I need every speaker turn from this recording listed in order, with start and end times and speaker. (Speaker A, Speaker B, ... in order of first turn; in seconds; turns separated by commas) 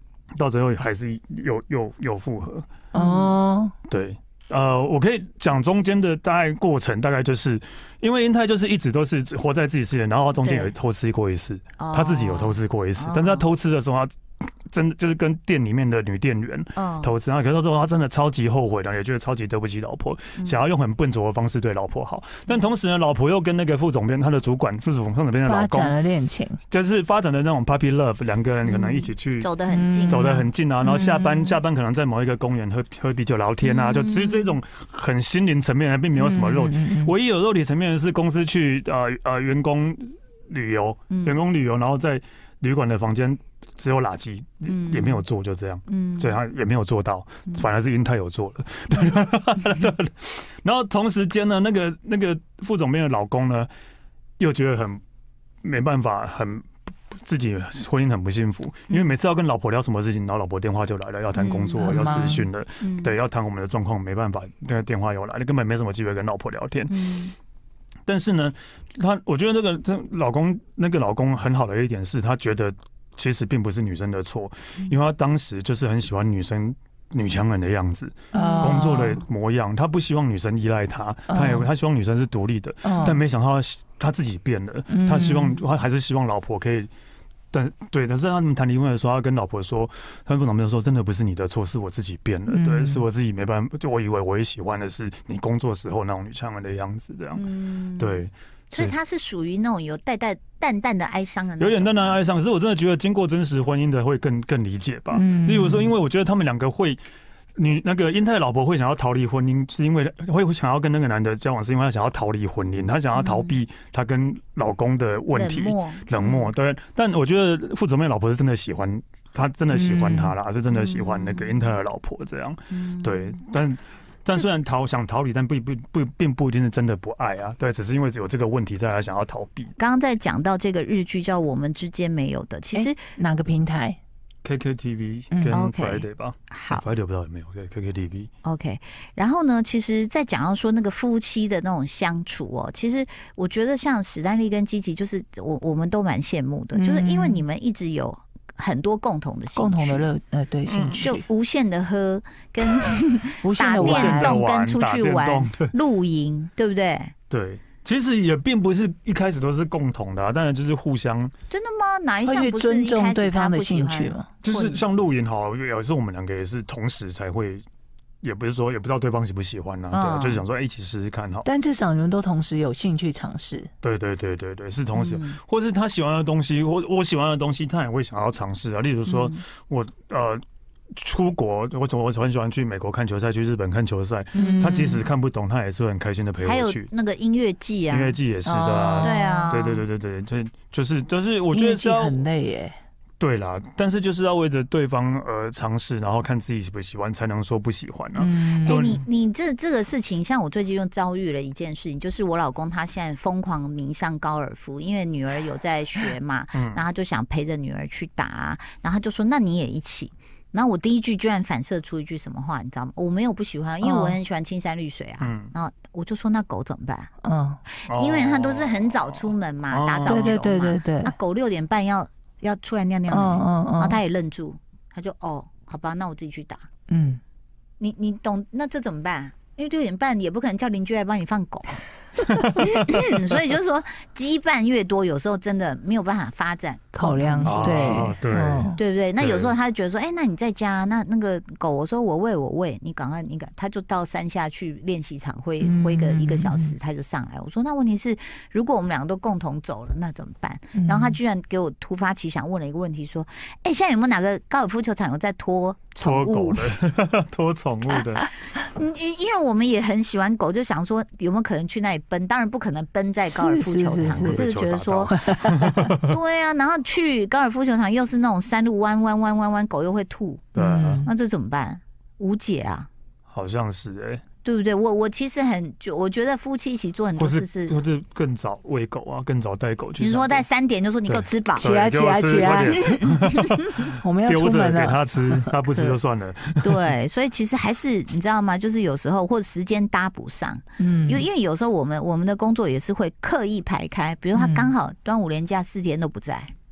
Speaker A: 0.4-2.7, Speaker B: 2.9-3.7, Speaker C: 2.9-3.4, Speaker A: 3.9-25.9, Speaker C: 10.4-10.7, Speaker C: 11.8-13.5, Speaker C: 16.8-17.1, Speaker B: 25.4-26.6, Speaker A: 26.7-29.5, Speaker C: 28.6-30.3, Speaker B: 29.7-31.6, Speaker A: 30.1-53.7, Speaker C: 33.6-34.6, Speaker B: 36.1-37.1, Speaker C: 41.1-41.4, Speaker C: 44.7-45.2, Speaker C: 45.9-46.4, Speaker A: 54.4-55.0, Speaker A: 55.6-66.9, Speaker C: 61.3-62.1, Speaker B: 61.8-62.5, Speaker C: 62.8-63.2, Speaker C: 66.9-67.3, Speaker A: 68.1-86.9, Speaker B: 78.3-79.2, Speaker C: 78.4-78.6, Speaker B: 81.3-81.7, Speaker B: 82.8-83.2, Speaker B: 84.9-85.7, Speaker A: 87.5-97.4, Speaker B: 92.5-93.1, Speaker C: 97.3-102.2, Speaker A: 98.0-98.9, Speaker A: 101.6-107.0, Speaker B: 105.1-105.9, Speaker A: 107.6-129.7, Speaker C: 113.2-113.6, Speaker C: 115.3-116.5, Speaker B: 119.7-120.3, Speaker C: 120.7-121.7, Speaker C: 122.7-123.4, Speaker C: 129.8-133.0, Speaker B: 132.7-134.0, Speaker A: 134.4-138.3, Speaker B: 135.3-135.7, Speaker C: 135.5-136.8, Speaker C: 138.4-150.1, Speaker B: 146.7-147.5, Speaker B: 149.6-151.2, Speaker A: 150.7-151.1, Speaker C: 151.0-157.1, Speaker B: 153.4-154.4, Speaker A: 153.8-155.7, Speaker A: 157.3-161.3, Speaker C: 161.5-164.8, Speaker B: 162.2-164.5, Speaker A: 164.4-167.6, Speaker A: 168.2-171.5, Speaker C: 169.9-170.4, Speaker B: 171.4-173.7, Speaker A: 173.8-180.4, Speaker C: 174.9-175.4, Speaker C: 179.1-179.4, Speaker A: 180.9-186.9, Speaker C: 184.3-184.8, Speaker B: 184.4-185.0, Speaker C: 186.4-188.2, Speaker A: 187.9-192.2, Speaker B: 188.4-189.5, Speaker C: 189.0-189.8, Speaker B: 191.5-192.8, Speaker A: 193.2-199.0, Speaker B: 198.2-199.0, Speaker C: 198.6-217.1, Speaker A: 206.5-206.8, Speaker B: 213.8-214.2, Speaker A: 215.2-215.5, Speaker B: 217.2-217.6, Speaker C: 217.7-226.6, Speaker A: 217.9-220.4, Speaker B: 220.1-221.2, Speaker B: 223.1-224.0, Speaker B: 226.9-227.2, Speaker C: 227.8-231.8, Speaker A: 232.4-233.0, Speaker C: 232.6-238.1, Speaker B: 236.9-238.8, Speaker A: 237.4-239.5, Speaker C: 238.8-256.6, Speaker B: 245.6-246.7, Speaker B: 250.7-251.2, Speaker A: 256.0-258.3, Speaker C: 258.5-265.2, Speaker B: 263.2-264.5, Speaker A: 264.0-266.1, Speaker B: 265.1-265.9, Speaker C: 266.0-272.9, Speaker A: 270.5-271.0, Speaker B: 270.6-271.1, Speaker A: 273.3-274.2, Speaker C: 274.4-277.8, Speaker A: 277.2-280.5, Speaker C: 280.0-281.7, Speaker A: 281.1-286.8, Speaker B: 281.6-282.9, Speaker B: 284.0-285.5, Speaker C: 286.6-296.5, Speaker B: 290.8-291.2, Speaker B: 294.4-294.7